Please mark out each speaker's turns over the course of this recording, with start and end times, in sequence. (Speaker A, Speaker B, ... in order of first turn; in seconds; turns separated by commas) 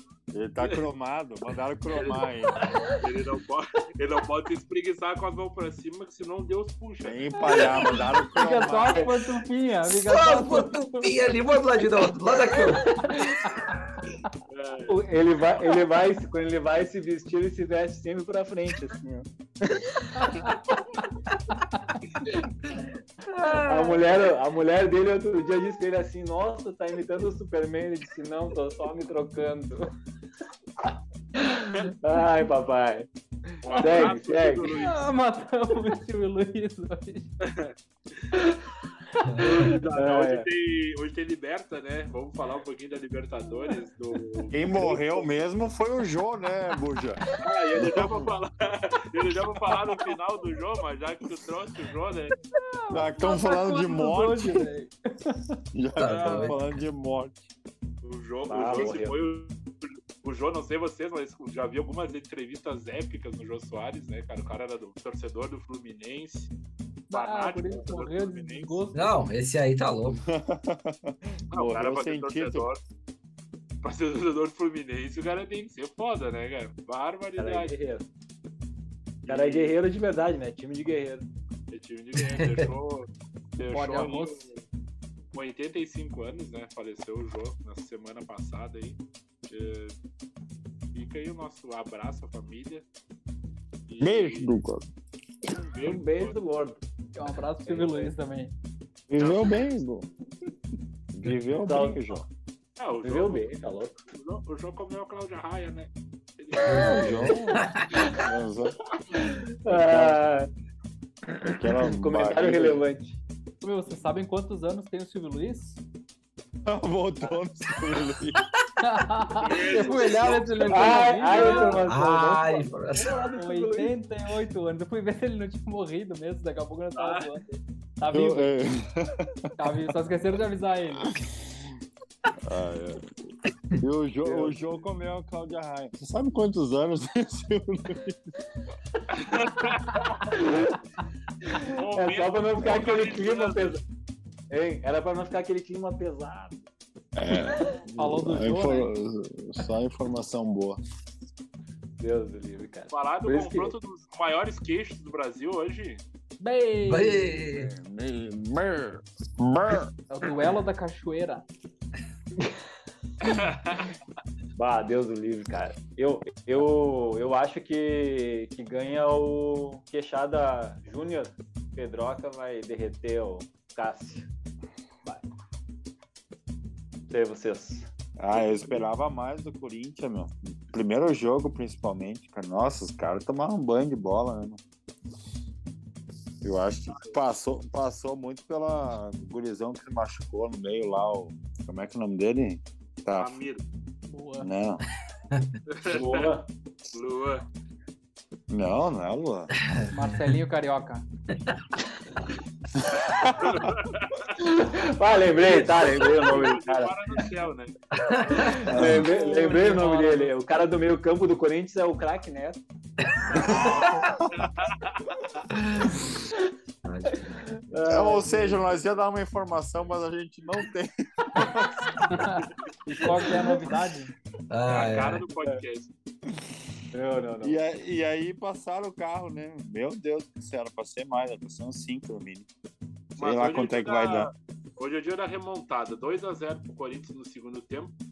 Speaker A: 0.3-2.7, Speaker B: 1.9-2.2, Speaker B: 2.9-7.9, Speaker A: 7.0-9.1, Speaker C: 7.4-11.1, Speaker D: 9.8-13.2, Speaker C: 12.5-14.3, Speaker B: 14.5-15.0, Speaker E: 14.9-20.7, Speaker C: 20.2-20.6, Speaker C: 21.6-22.0, Speaker D: 23.3-24.1, Speaker E: 23.5-29.9, Speaker E: 31.3-34.8, Speaker B: 33.6-35.0, Speaker C: 33.7-37.3, Speaker B: 37.4-38.2, Speaker E: 38.4-38.6, Speaker C: 39.2-39.7, Speaker B: 39.4-44.9, Speaker E: 39.5-40.5, Speaker A: 44.5-47.2, Speaker B: 47.4-52.4, Speaker A: 47.8-48.3, Speaker C: 52.5-55.5, Speaker A: 52.9-54.7, Speaker A: 55.7-57.5, Speaker D: 56.0-56.8, Speaker B: 56.0-56.5, Speaker B: 58.0-66.5, Speaker E: 58.5-59.1, Speaker B: 67.1-68.8, Speaker C: 67.1-69.1, Speaker D: 68.9-70.2, Speaker A: 70.1-72.7, Speaker B: 71.5-72.8, Speaker B: 73.8-77.8, Speaker E: 77.4-78.0, Speaker B: 79.3-79.8, Speaker E: 79.3-81.3, Speaker B: 81.7-84.6, Speaker D: 82.2-82.7, Speaker C: 83.6-84.5, Speaker B: 85.3-90.0, Speaker B: 90.9-92.8, Speaker B: 93.9-94.5, Speaker A: 94.0-94.9, Speaker B: 95.5-96.4, Speaker E: 95.8-96.8, Speaker C: 97.2-98.5, Speaker E: 97.7-98.1, Speaker A: 99.1-100.1, Speaker B: 99.2-99.6, Speaker A: 101.1-102.2, Speaker E: 101.6-102.0, Speaker B: 102.8-103.6, Speaker E: 103.0-104.0, Speaker B: 104.1-107.3, Speaker D: 106.7-107.8, Speaker A: 106.7-108.8, Speaker E: 109.1-110.5, Speaker A: 109.7-110.2, Speaker A: 111.4-112.8, Speaker E: 111.8-113.2, Speaker C: 113.6-115.8, Speaker A: 116.7-118.4, Speaker C: 118.8-121.9, Speaker B: 119.4-121.7, Speaker E: 120.7-123.9, Speaker D: 121.8-123.1, Speaker C: 123.0-128.6, Speaker B: 127.0-127.3, Speaker A: 128.1-129.5, Speaker C: 129.6-131.2, Speaker A: 131.2-131.6, Speaker A: 132.4-133.1, Speaker A: 133.8-138.2, Speaker E: 134.2-134.8, Speaker B: 139.1-140.0, Speaker E: 140.1-140.8, Speaker E: 141.4-143.8, Speaker B: 141.7-143.8, Speaker E: 144.5-146.7, Speaker A: 147.2-150.8, Speaker C: 147.9-148.9, Speaker E: 152.0-153.8, Speaker B: 152.9-156.0, Speaker C: 156.4-157.3, Speaker D: 156.8-157.7, Speaker A: 157.5-159.9, Speaker C: 160.1-161.4, Speaker B: 163.2-163.9, Speaker E: 164.6-174.3, Speaker E: 177.1-178.9, Speaker A: 178.2-184.6, Speaker A: 186.4-193.4, Speaker B: 193.1-193.6, Speaker C: 194.1-194.5, Speaker A: 194.4-194.8, Speaker D: 195.3-195.6, Speaker B: 195.7-196.3, Speaker E: 195.8-196.5, Speaker B: 196.9-197.4, Speaker A: 198.5-199.5, Speaker D: 199.7-200.4, Speaker C: 199.9-201.1, Speaker A: 202.8-203.7, Speaker B: 203.4-204.3, Speaker E: 204.4-207.2, Speaker B: 205.6-207.7, Speaker D: 208.0-209.0, Speaker E: 208.4-212.6, Speaker A: 208.7-209.1, Speaker C: 208.8-210.4, Speaker D: 213.3-213.9, Speaker A: 213.3-214.3, Speaker B: 214.3-215.1, Speaker D: 215.5-216.1, Speaker D: 216.8-217.6, Speaker E: 217.3-218.8, Speaker A: 217.9-222.2, Speaker C: 222.1-224.1, Speaker D: 224.5-225.2, Speaker B: 224.7-225.9, Speaker E: 226.9-227.6, Speaker A: 227.4-232.5, Speaker A: 233.2-234.3, Speaker B: 233.2-237.9